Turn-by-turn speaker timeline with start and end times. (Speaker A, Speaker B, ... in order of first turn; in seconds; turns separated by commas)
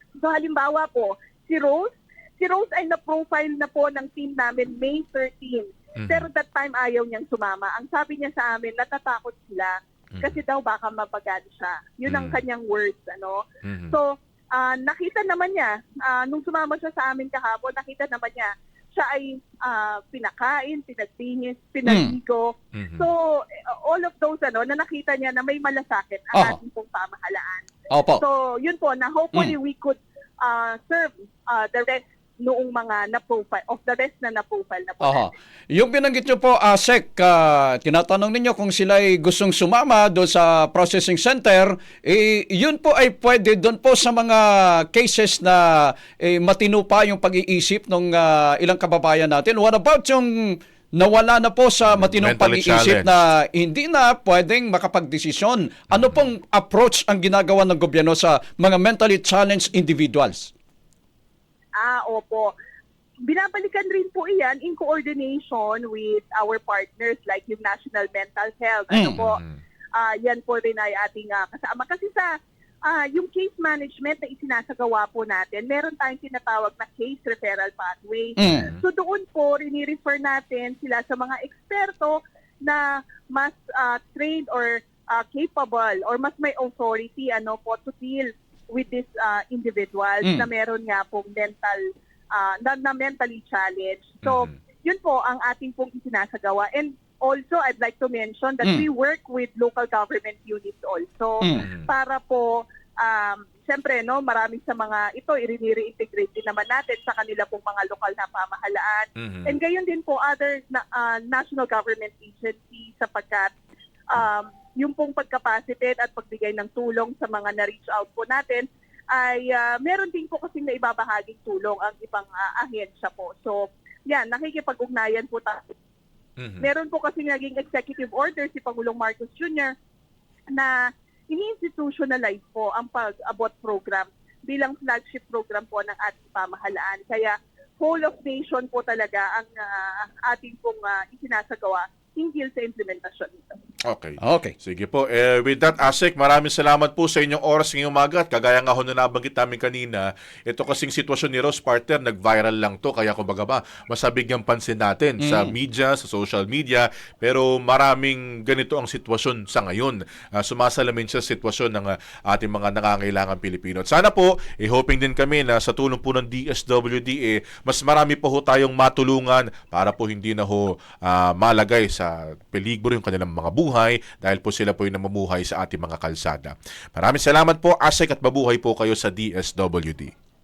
Speaker A: 0.2-35.3, Speaker B: 6.0-6.3, Speaker B: 12.1-12.4, Speaker B: 13.6-13.9, Speaker C: 21.9-22.1, Speaker B: 22.7-23.1, Speaker C: 27.9-28.2, Speaker C: 35.0-60.5, Speaker B: 51.9-53.1, Speaker A: 61.8-62.5, Speaker A: 63.3-69.4, Speaker C: 68.9-69.2, Speaker B: 69.2-69.6, Speaker A: 69.9-72.3, Speaker A: 72.8-91.8, Speaker C: 78.4-78.7, Speaker B: 78.4-78.8, Speaker C: 90.2-90.5, Speaker A: 92.3-102.5, Speaker B: 94.2-94.5, Speaker C: 101.4-101.7, Speaker B: 101.6-101.9, Speaker A: 103.0-113.5, Speaker B: 109.2-109.5, Speaker A: 114.1-125.7, Speaker B: 126.4-126.7, Speaker A: 126.6-129.7, Speaker A: 131.3-143.4, Speaker B: 143.9-180.1, Speaker C: 144.2-144.5, Speaker C: 155.2-155.5